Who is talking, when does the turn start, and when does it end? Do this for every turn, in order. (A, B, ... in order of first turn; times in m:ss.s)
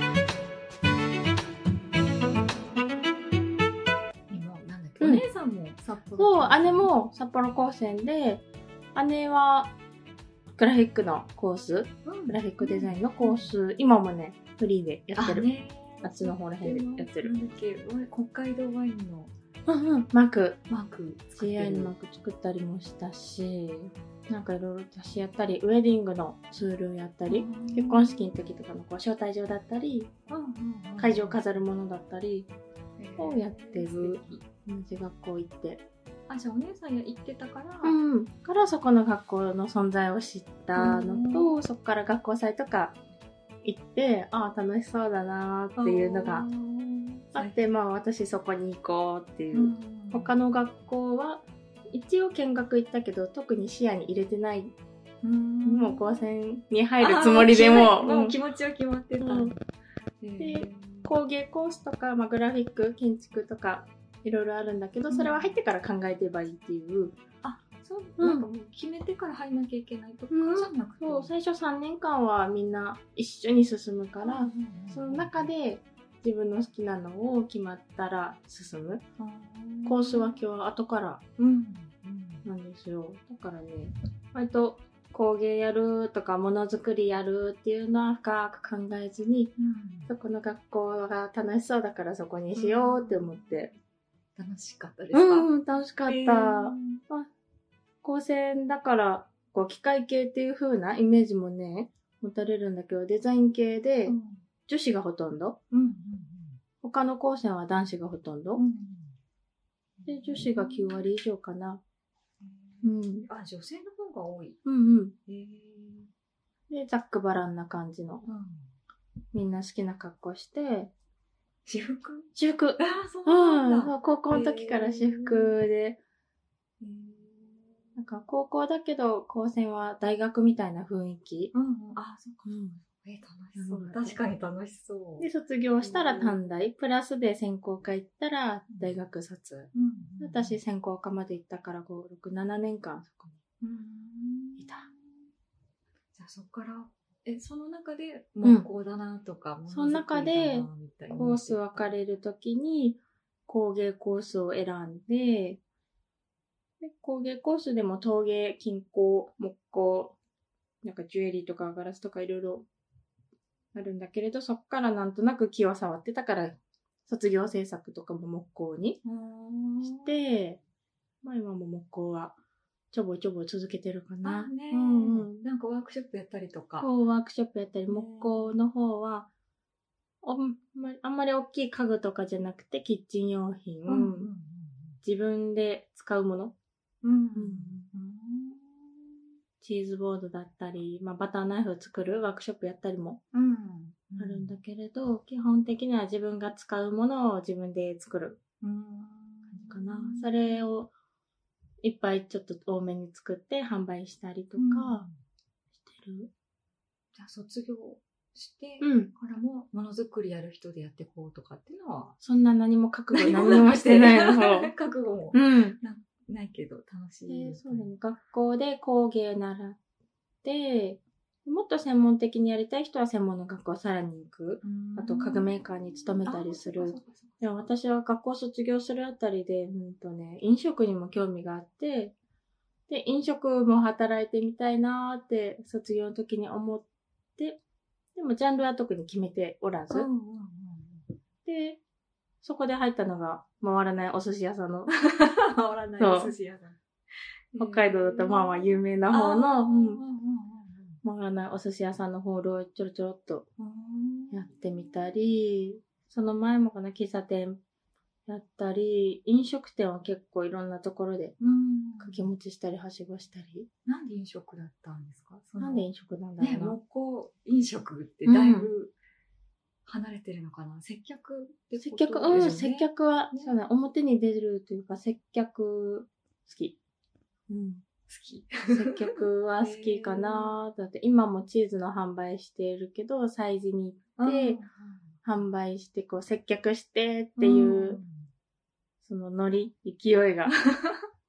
0:04.3-0:06.9 A
0:06.2-0:08.4 B
0:09.0-0:09.8 B
0:10.6-0:15.4 B
0:12.0-0:13.5 A
0:15.2-0:19.3 A
0:16.0-0:17.3 B
0:19.7-0:20.6 B
0:20.7-0:21.9 A
0:21.4-0:30.1 B
0:27.3-0:28.4 A
0:30.3-0:31.5 A
0:31.0-0:32.5 B
0:33.0-0:34.4 A
0:33.2-0:35.8 B
0:36.3-0:38.0 A
0:37.8-0:43.0 B
0:40.8-0:41.5 A
0:43.6-0:46.5 B
0:45.8-0:47.6 A
0:47.3-0:54.7 B
0:49.5-0:50.3 A
0:55.2-0:56.2 A
0:55.6-0:58.4 B
0:57.0-0:59.6 A
0:59.2-0:59.5 B
1:00.2-1:01.1 A
1:00.4-1:07.2 B
1:05.1-1:05.6 A
1:07.4-1:11.3 A
1:08.2-1:08.4 B
1:10.3-1:19.0 B
1:14.2-1:15.5 A
1:19.2-1:20.4 A
1:19.8-1:21.2 B
1:21.4-1:22.4 A
1:22.4-1:29.6 B
1:29.6-1:30.1 A
1:30.1-1:33.7 B
1:32.5-1:33.6 A
1:34.4-1:37.0 A
1:35.1-1:37.3 B
1:38.0-1:44.2 B
1:44.0-1:44.4 A
1:44.7-1:45.6 B
1:45.7-1:46.6 A
1:46.8-1:48.6 B
1:48.6-1:49.2 A
1:50.0-1:51.1 A
1:50.1-1:51.8 B
1:52.4-1:54.6 A
1:52.8-1:53.3 B
1:54.6-1:55.2 B
1:55.3-1:56.1 A
1:56.7-1:58.3 B
1:58.3-1:58.7 A
1:59.3-2:00.9 B
2:01.7-2:05.6 A
2:02.4-2:06.0 B
2:06.8-2:08.0 A
2:08.0-2:11.5 B
2:11.5-2:15.3 A
2:12.4-2:12.8 B
2:13.6-2:14.2 B
2:15.2-2:23.4 B
2:15.8-2:16.4 A
2:19.7-2:20.6 A
2:23.6-2:25.3 A
2:24.6-2:24.9 B
2:26.1-2:32.0 A
2:29.7-2:35.6 B
2:36.8-2:40.2 B
2:40.8-2:42.7 B
2:43.7-2:46.6 B
2:47.1-2:49.0 B
2:49.0-2:50.2 A
2:49.8-2:50.6 B
2:51.2-2:52.4 B
2:52.9-2:55.4 B
2:54.2-2:56.9 A
2:56.8-2:59.3 B
2:57.9-2:58.6 A
3:00.2-3:04.3 B
3:03.9-3:05.0 A
3:05.0-3:06.5 B
3:07.0-3:09.2 A
3:07.4-3:07.9 B
3:09.6-3:13.2 B
3:13.3-3:14.5 A
3:14.2-3:18.4 B
3:18.6-3:20.6 A
3:19.5-3:20.9 B
3:21.8-3:25.0 B
3:24.6-3:25.1 A
3:25.8-3:26.3 B
3:27.2-3:32.2 A
3:28.8-3:29.1 B
3:32.2-3:34.7 B
3:33.1-3:37.9 A
3:35.3-3:35.8 B
3:37.3-3:39.8 B
3:40.4-3:52.1 B
3:44.6-3:47.6 A
3:52.9-3:56.8 B
3:58.2-4:00.1 B
3:59.9-4:01.1 A
4:01.4-4:01.8 B
4:02.4-4:04.9 B
4:04.9-4:06.8 A
4:06.0-4:06.3 B
4:07.5-4:11.0 A
4:07.6-4:10.0 B
4:11.0-4:13.5 B
4:13.6-4:14.7 A
4:14.3-4:17.6 B
4:18.3-4:21.3 B
4:21.4-4:22.3 A
4:22.0-4:23.7 B
4:23.8-4:25.9 A
4:25.6-4:26.8 B
4:26.4-4:28.9 A
4:28.2-4:28.7 B
4:29.8-4:33.6 A
4:31.8-4:36.8 B
4:37.5-4:37.8 B
4:38.1-4:40.5 A
4:38.7-4:44.6 B
4:44.2-4:45.2 A
4:45.2-4:48.0 B
4:47.4-4:48.3 A
4:49.0-4:50.5 B
4:50.5-4:51.0 A